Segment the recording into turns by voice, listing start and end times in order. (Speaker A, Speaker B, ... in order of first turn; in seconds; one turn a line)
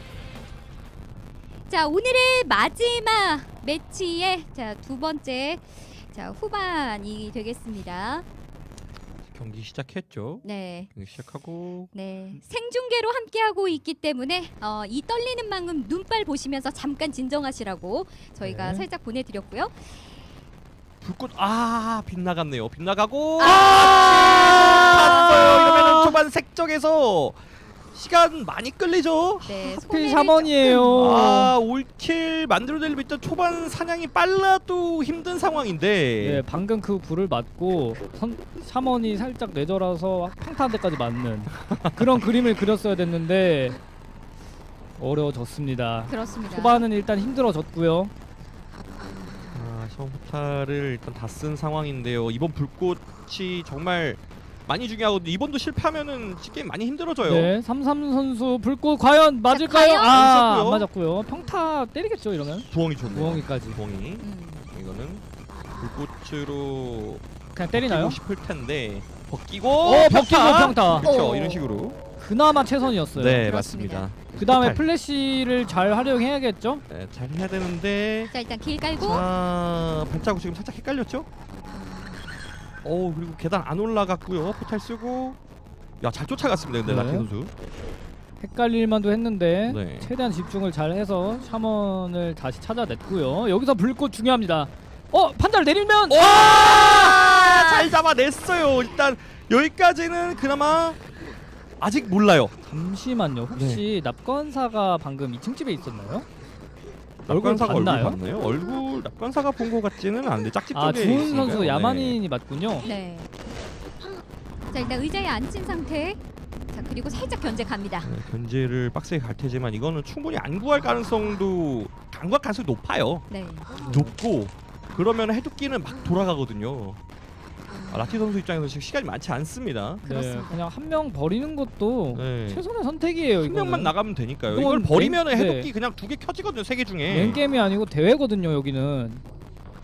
Speaker A: 1.7-8.2
Speaker B: 9.2-11.9
Speaker A: 10.4-10.9
Speaker A: 11.9-19.8
Speaker C: 18.4-18.9
Speaker B: 21.0-27.4
Speaker A: 23.4-25.3
Speaker C: 24.9-26.2
Speaker B: 27.9-29.5
Speaker A: 29.4-30.9
Speaker C: 29.6-31.6
Speaker B: 30.9-36.4
Speaker C: 36.2-43.8
Speaker B: 41.6-42.2
Speaker C: 45.0-48.1
Speaker A: 46.1-46.8
Speaker B: 49.5-57.5
Speaker C: 57.2-63.8
Speaker A: 59.5-60.2
Speaker B: 60.1-60.9
Speaker B: 62.7-65.2
Speaker A: 64.2-64.7
Speaker B: 65.8-72.0
Speaker C: 67.5-68.2
Speaker C: 69.8-71.1
Speaker A: 71.0-71.7
Speaker C: 72.2-73.5
Speaker B: 73.1-74.9
Speaker A: 73.5-74.1
Speaker C: 74.4-76.8
Speaker B: 76.9-78.3
Speaker A: 78.3-79.2
Speaker B: 79.0-81.3
Speaker B: 82.8-85.4
Speaker B: 86.0-87.5
Speaker C: 86.8-87.3
Speaker C: 88.4-96.4
Speaker B: 89.7-90.1
Speaker B: 96.1-101.0
Speaker A: 96.5-97.9
Speaker B: 101.8-102.5
Speaker C: 102.7-106.2
Speaker B: 103.5-103.8
Speaker B: 107.2-112.2
Speaker C: 107.3-108.2
Speaker C: 110.7-112.9
Speaker A: 112.8-113.3
Speaker A: 114.7-116.2
Speaker A: 116.7-118.1
Speaker B: 118.0-123.3
Speaker A: 123.3-123.7
Speaker C: 123.8-124.1
Speaker B: 123.9-127.0
Speaker B: 127.9-130.0
Speaker C: 130.0-135.7
Speaker A: 130.0-130.6
Speaker B: 132.1-132.6
Speaker B: 133.4-137.4
Speaker C: 137.1-139.2